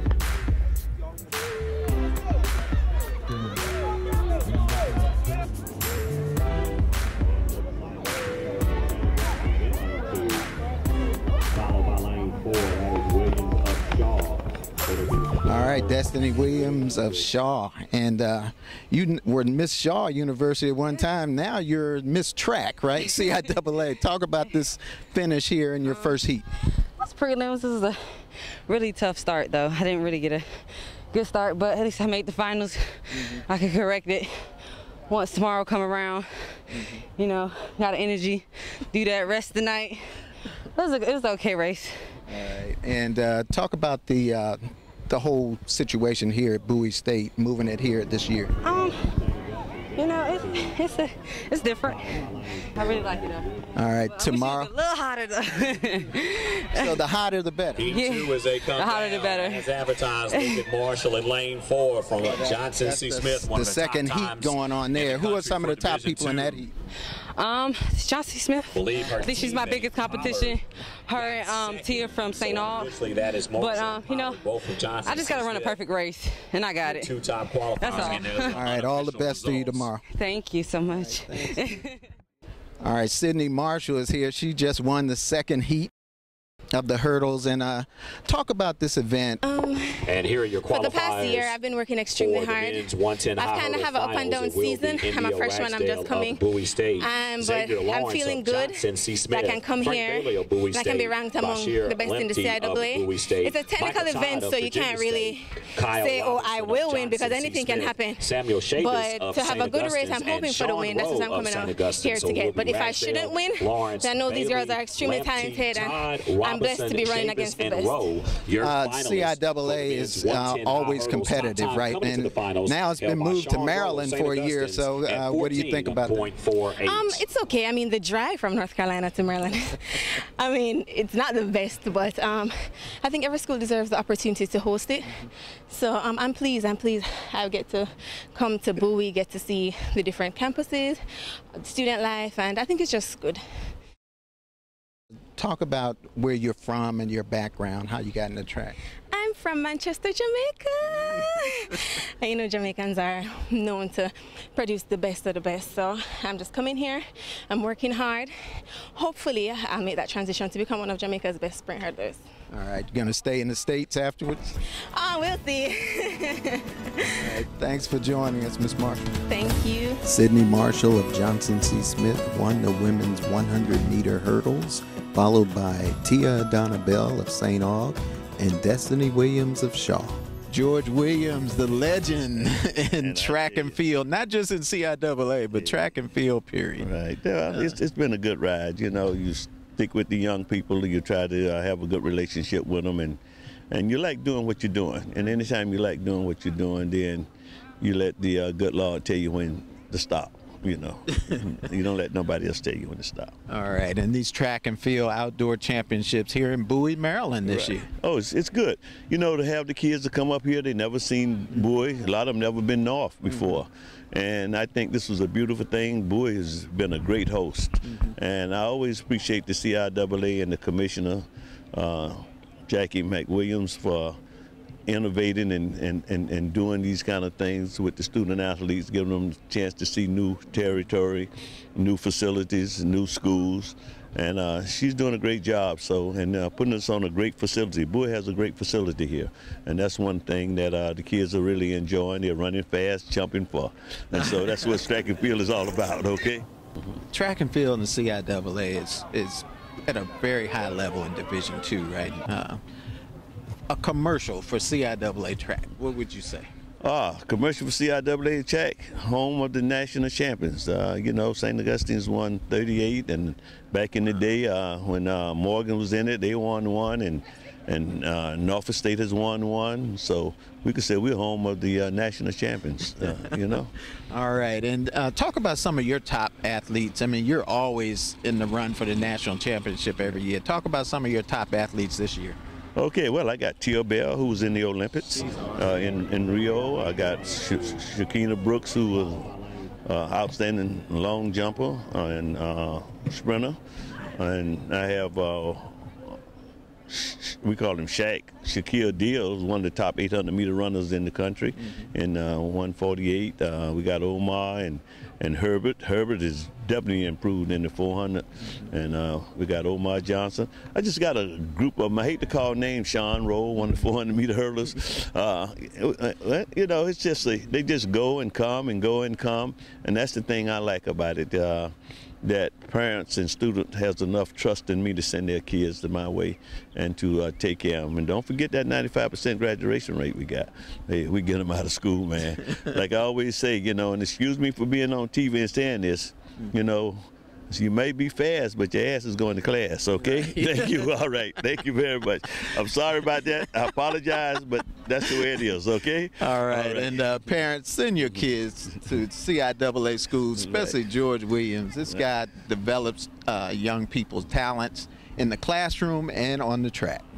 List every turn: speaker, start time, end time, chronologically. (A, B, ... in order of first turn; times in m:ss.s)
0:08.8-0:10.5 A
0:11.5-0:17.3 A
0:15.4-0:26.4 B
0:25.8-0:26.1 C
0:26.8-0:34.3 C
0:35.1-0:40.0 C
0:36.7-0:37.0 B
0:40.5-0:42.0 C
0:42.3-0:48.6 B
0:48.6-0:49.2 C
0:49.3-0:50.7 A
0:50.0-0:53.4 C
0:51.9-0:53.7 A
0:53.7-0:54.7 B
0:54.0-0:57.0 C
0:56.7-0:57.9 B
0:57.8-1:06.6 A
0:57.8-1:00.7 C
1:02.2-1:06.7 B
1:07.3-1:17.1 C
1:08.7-1:10.6 A
1:11.1-1:15.8 A
1:16.8-1:19.9 A
1:17.7-1:18.6 C
1:18.4-1:20.0 B
1:20.1-1:22.0 C
1:21.0-1:21.7 B
1:22.8-1:25.9 B
1:26.7-1:29.4 B
1:29.4-1:30.1 D
1:30.0-1:31.6 A
1:30.7-1:36.4 D
1:32.1-2:07.2 A
1:37.0-1:58.0 D
1:58.6-2:06.3 B
2:06.8-2:21.0 D
2:21.5-2:23.4 D
2:25.4-2:28.8 B
2:29.1-2:42.2 D
2:42.5-2:44.6 B
2:44.7-2:47.4 D
2:47.2-2:49.0 B
2:49.3-2:50.0 D
2:50.0-3:06.9 B
3:02.1-3:03.8 E
3:05.5-3:05.8 E
3:06.8-3:13.2 E
3:13.7-3:17.3 E
3:17.8-3:23.3 E
3:23.5-3:27.9 B
3:27.4-3:44.2 E
3:44.9-4:06.4 E
4:07.1-4:12.6 B
4:13.7-4:16.5 B
4:16.8-4:33.7 E
4:34.1-4:42.4 B
4:42.8-4:49.3 E
4:45.2-4:47.9 A
4:49.0-4:49.6 A
4:49.8-4:55.9 E
4:56.9-5:47.3 E
5:40.0-5:40.9 B
5:46.2-5:57.0 B
5:50.4-5:50.8 E